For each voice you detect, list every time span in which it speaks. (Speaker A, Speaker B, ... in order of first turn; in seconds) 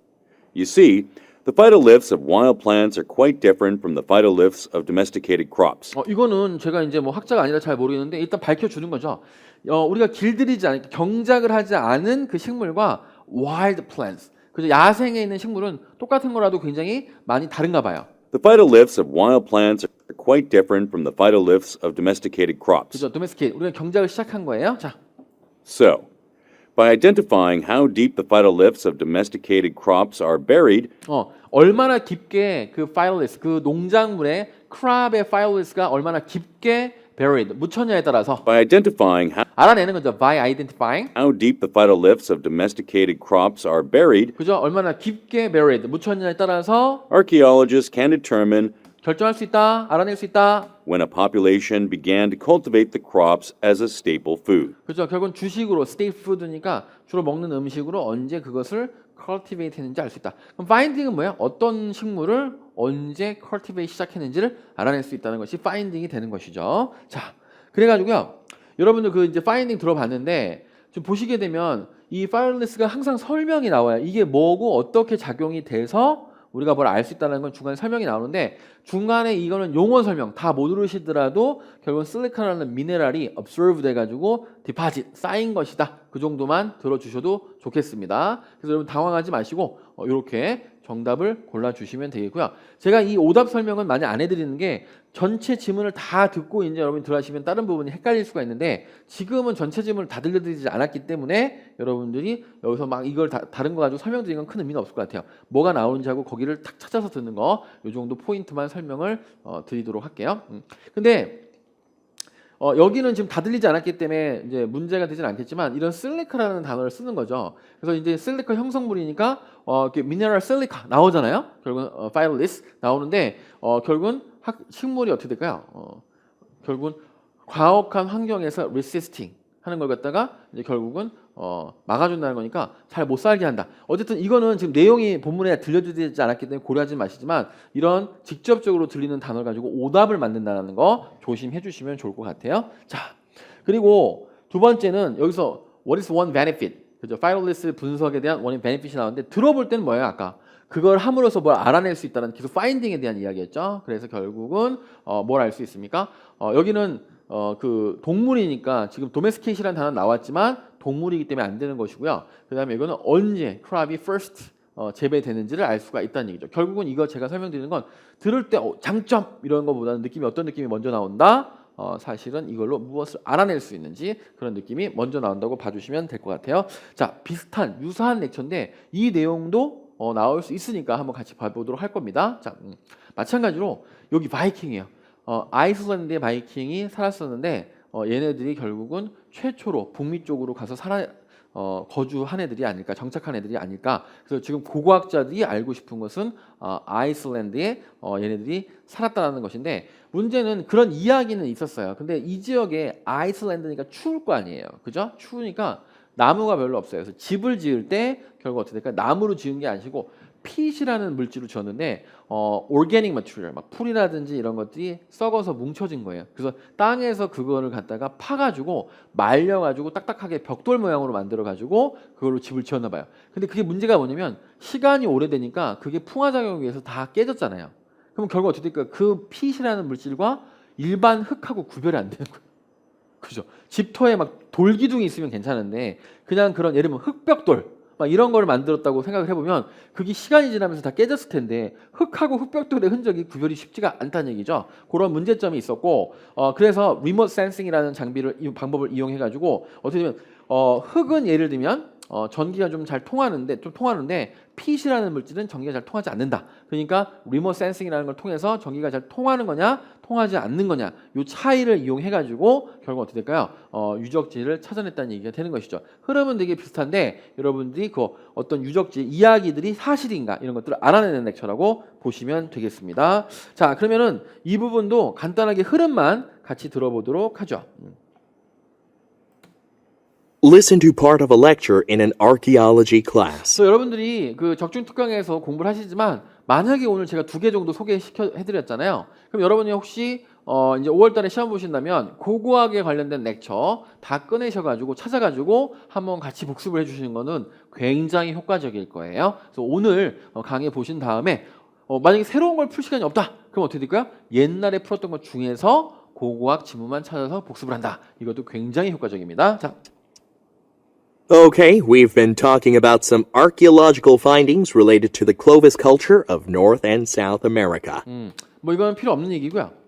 Speaker A: 0.5-5.9, 18.3-23.0, 25.6-26.1, 26.8-30.9, 38.4-39.5, 41.1-44.4, 47.1-48.7, 50.9-54.7
Speaker B: 5.9-18.1, 22.9-24.9, 31.1-38.4, 39.5-41.1, 44.4-47.0, 49.0-50.7, 54.9-111.4, 112.6-126.0, 126.6-232.4, 233.2-277.9, 283.5-309.8, 318.1-319.7
Speaker C: 280.4-283.6, 311.3-318.0